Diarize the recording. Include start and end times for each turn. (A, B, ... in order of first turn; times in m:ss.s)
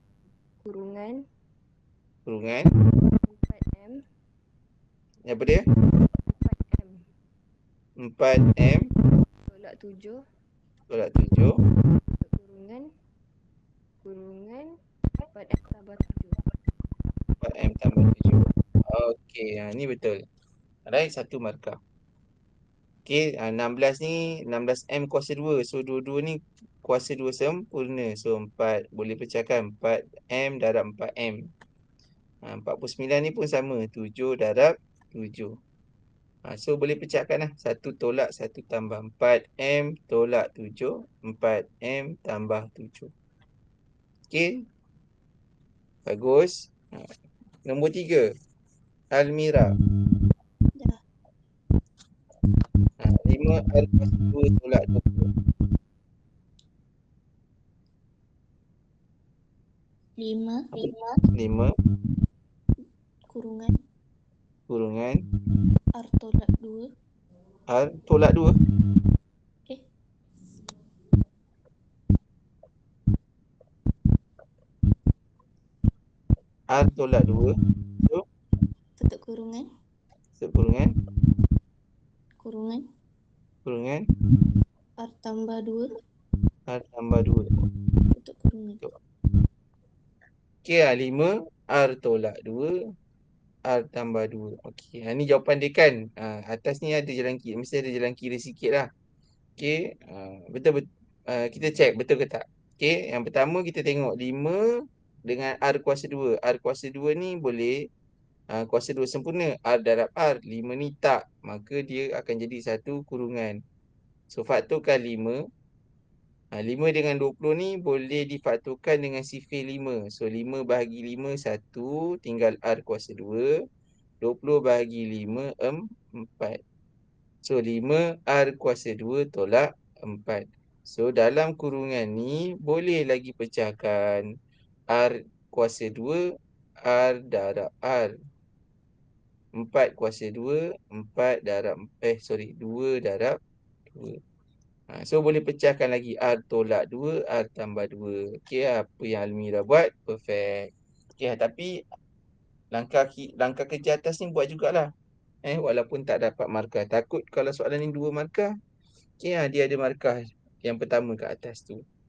0:00.6-0:01.2 A
0:02.2-0:02.7 B
0:03.2-0:04.0 A
0:05.2-0:05.6 B
0:06.3-0:07.0 A
0:08.0-0:08.9 B
0:09.5-0:10.2 A
0:10.9-0:11.6 B
0:12.2-0:12.9 A
0:14.0-0:14.7 A
0:15.3-0:16.4 A
0:17.4-0:20.2 B
0:20.9-0:21.8 B
0:23.0-0:31.5 B
0:32.4-0:35.6 B
0:36.4-0:43.1 B
0:46.0-0:47.1 B
0:47.6-0:48.3 B
0:49.1-0:49.7 B
0:53.0-0:55.2 B
1:00.2-1:01.2 C
1:00.8-1:01.7 B
1:03.3-1:03.7 C
1:04.7-1:05.2 B
1:06.0-1:06.8 C
1:07.7-1:08.6 B
1:16.7-1:18.2 B
1:19.0-1:19.6 C
1:20.4-1:20.9 B
1:22.4-1:22.8 C
1:23.6-1:24.0 B
1:25.0-1:25.9 C
1:26.7-1:27.5 B
1:28.2-1:28.8 C
1:30.6-1:32.7 B
1:33.7-1:38.9 B
1:39.6-1:47.9 B
1:48.5-1:53.6 B
1:54.3-1:55.4 B
1:56.5-2:03.5 B
2:04.2-2:06.6 B
2:07.4-2:14.3 B
2:14.9-2:16.2 B
2:16.8-2:18.1 B
2:19.6-2:23.4 B
2:23.9-2:24.2 B
2:24.9-2:31.8 B
2:32.7-2:34.9 B
2:35.4-2:38.5 B
2:39.2-2:41.8 B